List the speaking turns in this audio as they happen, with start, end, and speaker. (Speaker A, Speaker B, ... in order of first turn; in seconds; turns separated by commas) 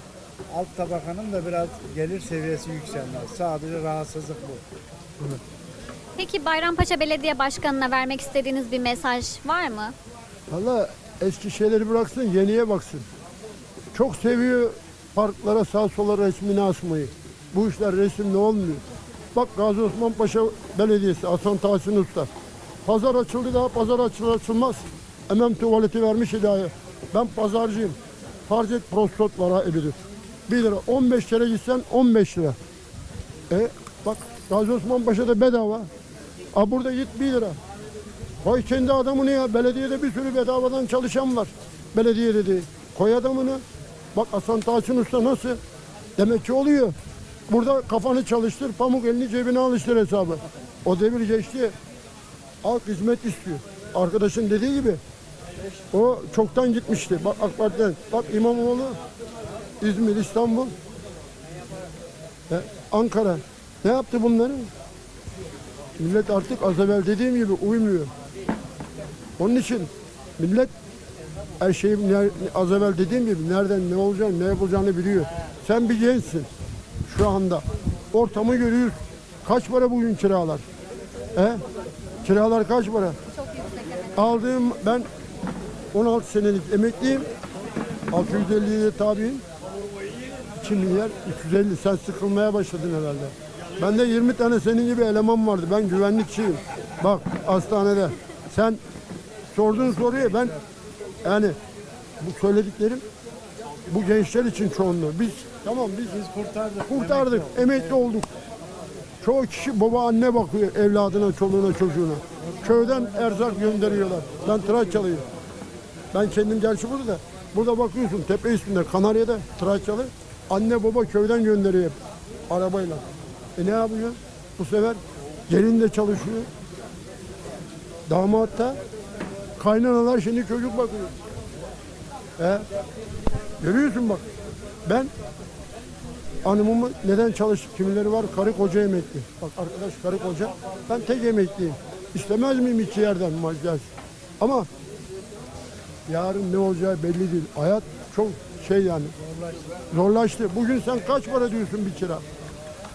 Speaker A: 0.5-4.6, Speaker B: 6.2-9.9, Speaker C: 10.5-13.1, Speaker C: 13.9-18.8, Speaker C: 19.3-22.3, Speaker C: 22.9-30.0, Speaker C: 30.5-32.6, Speaker C: 33.5-35.9, Speaker C: 36.5-37.6, Speaker C: 38.4-43.6, Speaker C: 44.1-45.6, Speaker C: 46.2-47.0, Speaker C: 47.5-51.8, Speaker C: 52.6-55.0, Speaker C: 55.9-59.0, Speaker C: 59.8-60.7, Speaker C: 62.5-64.7, Speaker C: 66.0-68.1, Speaker C: 69.4-70.7, Speaker C: 71.6-76.5, Speaker C: 77.1-80.6, Speaker C: 81.3-81.6, Speaker C: 82.2-83.2, Speaker B: 83.4-84.2, Speaker C: 84.1-85.1, Speaker C: 85.9-87.3, Speaker C: 88.1-89.4, Speaker C: 90.6-98.8, Speaker C: 99.5-100.5, Speaker A: 99.7-100.7, Speaker C: 101.2-101.6, Speaker C: 102.2-103.0, Speaker C: 103.9-106.2, Speaker A: 106.1-108.1, Speaker C: 106.9-108.3, Speaker C: 109.2-115.2, Speaker A: 112.4-115.3, Speaker C: 116.1-122.0, Speaker C: 122.5-123.0, Speaker C: 123.6-126.5, Speaker C: 128.1-128.8, Speaker C: 129.6-131.1, Speaker C: 132.4-132.6, Speaker C: 133.6-134.2, Speaker C: 134.8-135.1, Speaker C: 136.4-143.9, Speaker C: 144.4-144.7, Speaker C: 146.1-149.2, Speaker A: 149.2-149.8, Speaker C: 149.9-152.2